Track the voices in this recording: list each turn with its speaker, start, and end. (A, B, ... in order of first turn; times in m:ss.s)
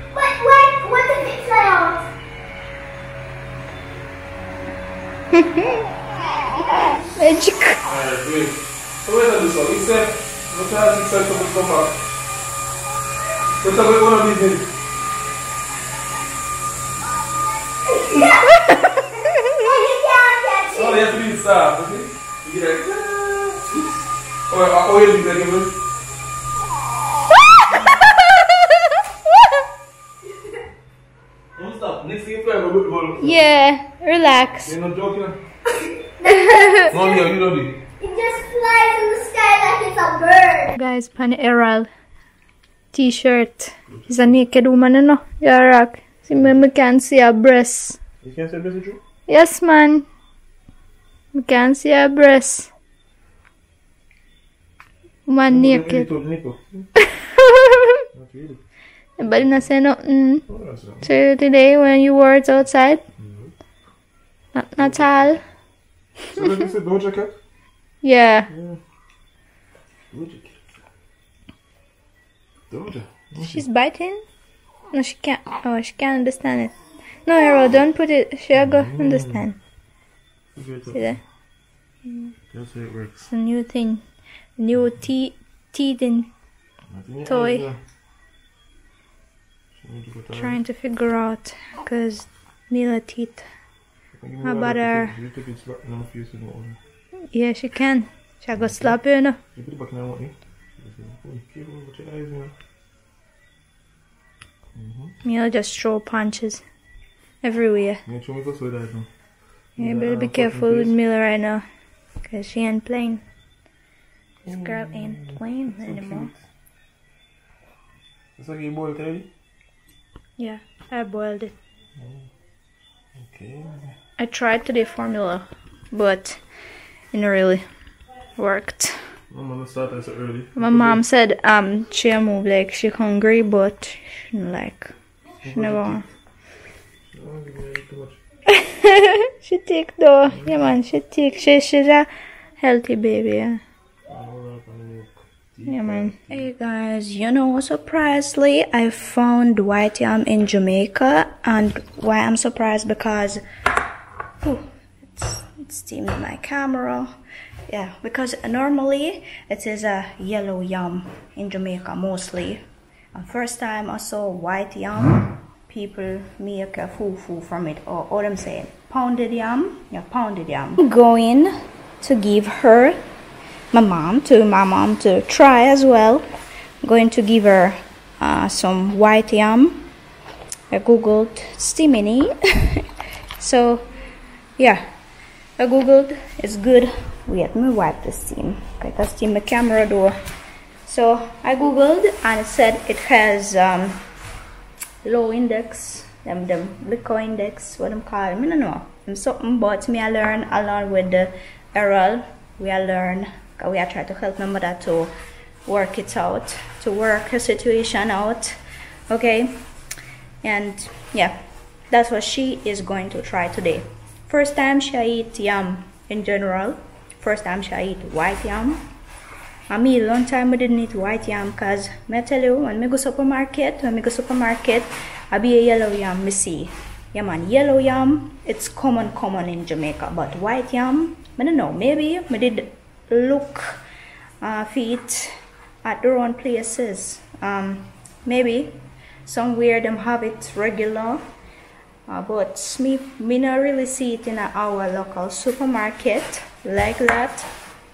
0:00.1-0:02.0 A
0:05.3-0:05.8 B
0:06.7-0:07.8 B
0:07.8-0:12.0 C
0:13.6-0:14.7 C
0:17.8-0:21.0 A
0:20.7-0:23.8 C
0:24.5-0:25.7 C
0:31.6-0:33.4 C
0:33.2-0:34.7 B
0:34.6-0:35.4 C
0:36.2-0:37.2 A
0:36.2-0:36.9 B
0:36.9-0:37.7 C
0:38.0-0:40.8 A
0:40.8-0:41.9 B
0:42.9-0:48.0 B
0:48.2-0:49.0 C
0:49.3-0:50.0 B
0:51.3-0:52.7 B
0:55.3-0:56.1 B
0:55.5-0:56.8 C
0:57.0-0:58.0 B
0:58.1-0:58.6 C
0:59.2-1:00.4 B
0:59.2-0:59.5 C
1:00.5-1:01.1 C
1:01.0-1:03.0 B
1:03.2-1:03.5 C
1:04.5-1:05.4 B
1:04.8-1:05.3 C
1:06.3-1:07.3 C
1:08.0-1:08.5 B
1:08.5-1:08.8 C
1:10.1-1:10.6 C
1:12.7-1:13.6 C
1:13.4-1:14.2 B
1:14.9-1:19.6 B
1:18.5-1:19.4 C
1:20.5-1:21.2 C
1:20.9-1:21.2 B
1:22.1-1:22.3 B
1:22.5-1:23.2 C
1:23.3-1:24.0 B
1:24.6-1:26.3 B
1:26.9-1:27.8 C
1:27.2-1:27.7 B
1:29.8-1:30.6 C
1:30.3-1:33.4 B
1:34.1-1:36.8 C
1:34.4-1:35.1 B
1:37.3-1:39.4 B
1:38.5-1:39.0 C
1:39.5-1:42.5 C
1:44.7-1:45.1 C
1:45.2-1:46.6 B
1:47.4-1:48.0 B
1:48.0-1:49.1 C
1:49.8-1:50.9 C
1:49.8-1:51.6 B
1:52.2-1:53.2 B
1:54.4-1:56.3 B
1:54.4-1:56.4 C
1:58.4-1:59.3 C
2:00.4-2:01.6 B
2:02.0-2:02.2 C
2:03.2-2:03.9 C
2:04.2-2:06.4 B
2:07.1-2:07.6 B
2:08.4-2:09.0 B
2:09.3-2:11.0 C
2:10.6-2:14.9 B
2:15.4-2:16.0 C
2:15.5-2:16.0 B
2:17.1-2:18.2 C
2:18.5-2:23.6 B
2:20.3-2:20.7 C
2:24.1-2:26.5 C
2:25.7-2:33.4 B
2:34.4-2:37.1 B
2:37.7-2:42.6 B
2:43.1-2:53.0 B
2:53.7-2:56.2 B
2:56.8-2:59.9 B
3:00.7-3:02.8 B
3:03.4-3:03.9 B
3:04.6-3:04.9 B
3:05.6-3:10.1 B
3:10.8-3:14.0 B
3:15.0-3:25.1 B
3:25.6-3:28.6 B
3:29.1-3:29.6 B
3:30.4-3:31.4 B
3:31.9-3:38.8 B
3:39.7-3:53.8 B
3:54.4-4:01.2 B
4:02.1-4:07.5 B